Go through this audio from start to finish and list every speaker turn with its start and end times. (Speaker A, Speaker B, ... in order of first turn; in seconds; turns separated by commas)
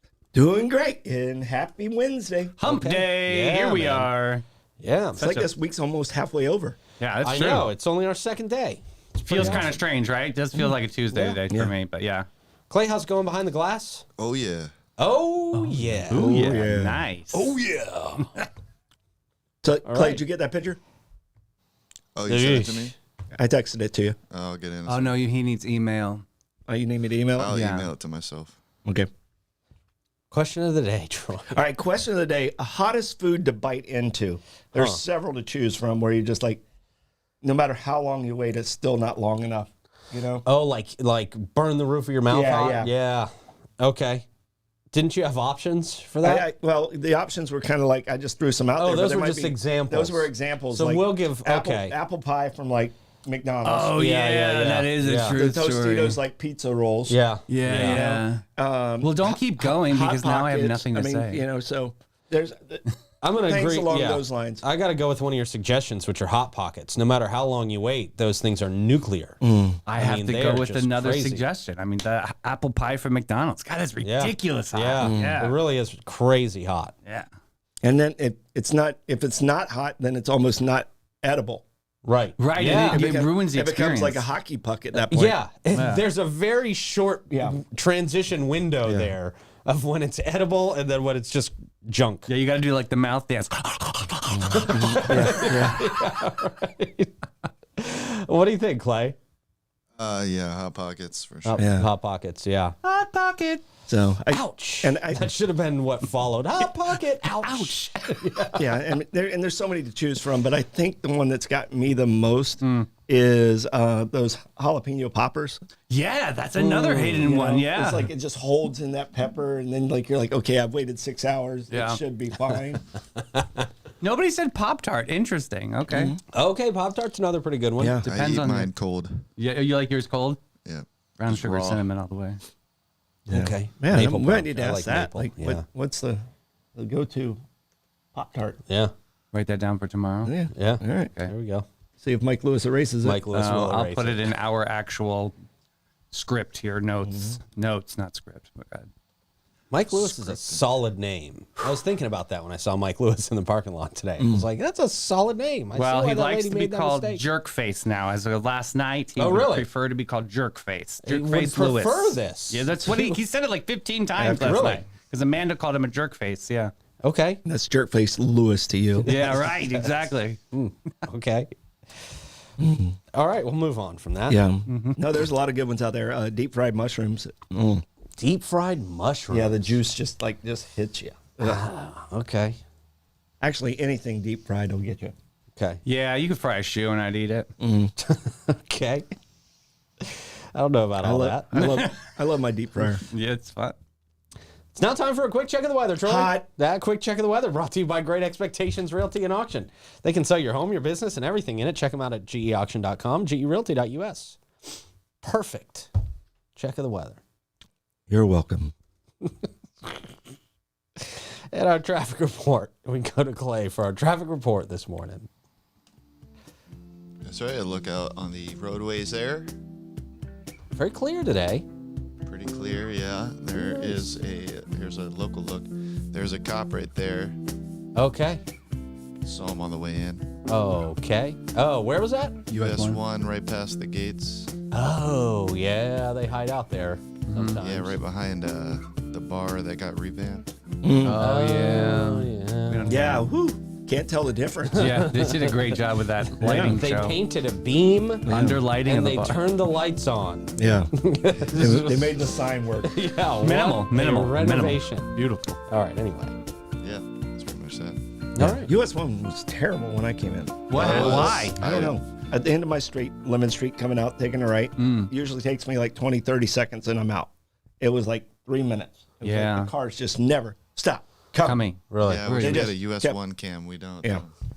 Speaker A: 0.3-2.5, Speaker B: 2.6-4.4, Speaker C: 2.6-4.1, Speaker C: 4.8-5.2, Speaker A: 5.2-6.8, Speaker B: 5.2-5.5, Speaker B: 7.0-7.7, Speaker C: 7.2-9.8, Speaker B: 9.2-12.2, Speaker C: 11.1-11.4, Speaker C: 12.7-14.0, Speaker D: 14.2-14.7, Speaker C: 15.0-16.5, Speaker B: 15.5-17.5, Speaker A: 16.1-17.0, Speaker C: 17.3-18.4, Speaker A: 19.6-20.8, Speaker C: 19.8-20.2, Speaker D: 22.1-22.9, Speaker C: 22.2-22.9, Speaker A: 23.4-24.2, Speaker D: 24.3-25.2, Speaker B: 24.9-26.2, Speaker A: 26.7-27.5, Speaker D: 27.4-28.6, Speaker B: 27.5-27.9, Speaker C: 30.3-31.6, Speaker A: 31.5-36.6, Speaker C: 34.7-35.0, Speaker A: 37.4-40.4, Speaker C: 40.4-44.2, Speaker A: 42.3-42.9, Speaker C: 44.9-46.5, Speaker A: 46.2-53.9, Speaker C: 48.8-51.9, Speaker B: 53.6-56.2, Speaker C: 54.0-55.4, Speaker A: 55.3-57.2, Speaker C: 57.1-58.0, Speaker B: 57.5-58.4, Speaker A: 57.8-62.8, Speaker B: 59.0-61.4, Speaker C: 63.2-69.4, Speaker A: 63.4-64.6, Speaker A: 69.4-69.8, Speaker B: 69.9-75.6, Speaker C: 69.9-71.4, Speaker C: 74.0-76.9, Speaker A: 75.0-75.4, Speaker A: 77.8-81.6, Speaker C: 82.0-83.1, Speaker B: 82.4-84.2, Speaker A: 82.7-85.4, Speaker C: 85.0-92.3, Speaker B: 85.7-86.0, Speaker A: 87.3-87.6, Speaker A: 88.8-89.1, Speaker B: 92.3-95.7, Speaker A: 94.3-95.8, Speaker C: 94.5-99.2, Speaker D: 100.0-101.6, Speaker C: 101.4-102.8, Speaker A: 101.6-101.9, Speaker B: 102.8-103.6, Speaker A: 103.9-105.3, Speaker C: 104.3-108.8, Speaker B: 106.6-108.2, Speaker A: 108.5-115.6, Speaker B: 112.6-112.9, Speaker B: 115.9-118.1, Speaker C: 116.6-117.3, Speaker A: 117.2-122.8, Speaker B: 121.7-122.0, Speaker B: 124.0-126.1, Speaker A: 125.9-126.2, Speaker C: 126.3-128.0, Speaker A: 127.8-128.1, Speaker B: 128.0-128.7, Speaker D: 128.1-129.2, Speaker B: 129.4-130.4, Speaker D: 130.6-131.8, Speaker B: 131.2-132.4, Speaker C: 133.3-135.6, Speaker A: 133.3-136.2, Speaker A: 136.8-137.4, Speaker A: 138.1-138.6, Speaker B: 139.3-140.3, Speaker A: 140.2-141.1, Speaker C: 140.5-141.6, Speaker A: 142.0-143.2, Speaker C: 143.0-144.2, Speaker B: 143.3-145.3, Speaker B: 146.1-148.9, Speaker A: 147.0-147.4, Speaker C: 149.7-157.2, Speaker D: 149.9-150.6, Speaker A: 154.2-154.5, Speaker B: 155.7-166.7, Speaker C: 159.2-159.7, Speaker C: 161.0-163.2, Speaker A: 164.2-164.8, Speaker C: 164.3-164.8, Speaker C: 167.0-167.4, Speaker A: 167.4-169.4, Speaker C: 169.1-169.9, Speaker B: 169.1-170.4, Speaker C: 170.5-171.5, Speaker A: 172.6-172.9, Speaker C: 173.1-174.4, Speaker A: 174.3-177.8, Speaker B: 174.7-175.0, Speaker C: 178.2-179.7, Speaker A: 179.3-181.6, Speaker C: 181.4-182.6, Speaker A: 183.4-185.1, Speaker C: 185.6-185.8, Speaker B: 185.8-187.5, Speaker A: 187.6-187.9, Speaker C: 188.0-189.1, Speaker C: 190.0-191.7, Speaker A: 191.0-193.0, Speaker B: 191.5-192.0, Speaker B: 193.1-193.8, Speaker C: 194.7-204.4, Speaker A: 196.0-196.4, Speaker C: 205.2-205.9, Speaker C: 206.5-207.2, Speaker A: 208.1-208.7, Speaker C: 211.0-215.3, Speaker D: 217.2-219.5, Speaker C: 220.7-221.7, Speaker D: 222.2-227.4, Speaker C: 223.5-224.2, Speaker C: 227.9-228.4, Speaker D: 229.2-230.3, Speaker C: 230.5-232.4, Speaker B: 232.5-233.0, Speaker D: 232.5-234.5, Speaker C: 234.7-238.0, Speaker B: 237.3-237.6, Speaker D: 237.6-240.5, Speaker A: 240.8-241.3, Speaker B: 241.0-243.3, Speaker C: 241.1-243.0, Speaker A: 242.9-245.0, Speaker C: 244.7-245.8, Speaker B: 244.8-247.2, Speaker C: 246.3-256.3, Speaker A: 246.4-246.8, Speaker A: 248.3-248.6, Speaker B: 248.3-249.5, Speaker A: 250.6-250.9, Speaker A: 251.5-253.0, Speaker B: 253.4-255.5, Speaker D: 256.8-258.0, Speaker C: 258.3-258.7, Speaker A: 258.4-267.3, Speaker B: 260.7-261.6, Speaker D: 260.7-262.0, Speaker B: 264.8-265.1, Speaker A: 267.8-271.6, Speaker B: 269.2-269.7, Speaker B: 271.4-272.7, Speaker C: 271.9-272.3, Speaker D: 272.0-274.3, Speaker A: 272.4-273.2